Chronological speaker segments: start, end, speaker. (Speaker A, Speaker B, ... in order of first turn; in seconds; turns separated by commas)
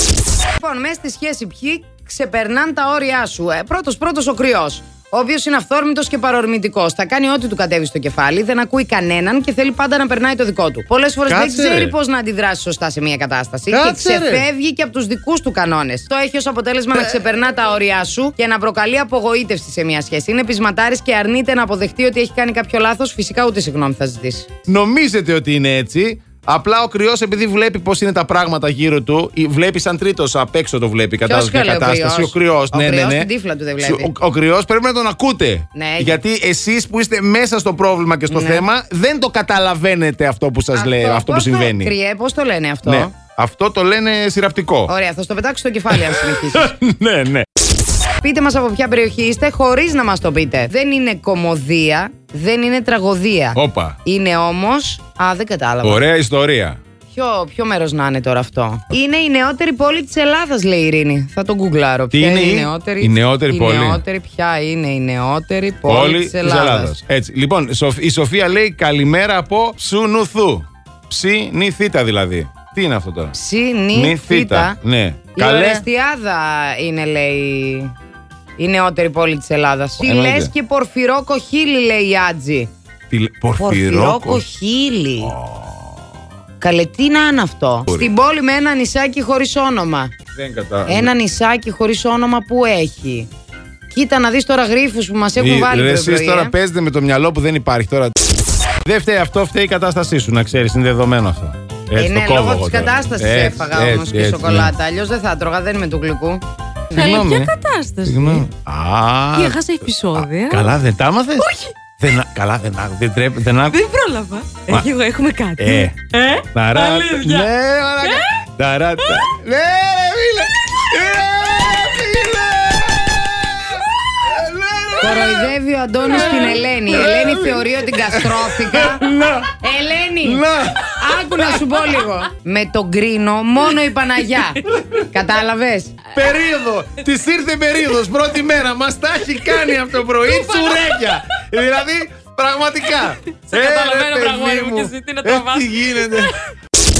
Speaker A: 0.4-24.5, Speaker B: 11.3-11.9, Speaker B: 13.7-14.4, Speaker B: 24.7-33.3, Speaker A: 31.2-34.1, Speaker B: 33.8-41.9, Speaker A: 35.7-36.2, Speaker A: 38.3-38.6, Speaker A: 40.7-43.1, Speaker B: 42.8-44.9, Speaker A: 44.9-46.7, Speaker B: 45.9-47.5, Speaker A: 48.2-56.0, Speaker B: 53.5-54.0, Speaker B: 55.8-56.8, Speaker A: 57.1-67.0, Speaker B: 62.1-64.0, Speaker B: 65.8-73.3, Speaker A: 73.3-74.8, Speaker B: 73.9-75.8, Speaker A: 75.3-77.9, Speaker A: 78.6-82.7, Speaker B: 80.0-80.5, Speaker B: 83.1-84.4, Speaker A: 83.6-85.3, Speaker B: 85.2-85.9, Speaker A: 86.6-90.1, Speaker B: 90.3-91.1, Speaker A: 90.8-93.3, Speaker A: 93.9-96.5, Speaker B: 95.4-98.1, Speaker B: 98.8-104.7, Speaker A: 102.0-107.3, Speaker B: 106.9-113.8, Speaker C: 106.9-108.4, Speaker C: 109.4-110.7, Speaker C: 113.7-117.5, Speaker B: 115.6-116.0, Speaker B: 116.5-125.5, Speaker A: 125.0-129.1, Speaker B: 126.0-129.5, Speaker A: 129.6-136.0, Speaker B: 130.2-131.8, Speaker B: 134.7-135.0, Speaker B: 136.1-146.3, Speaker C: 143.5-146.1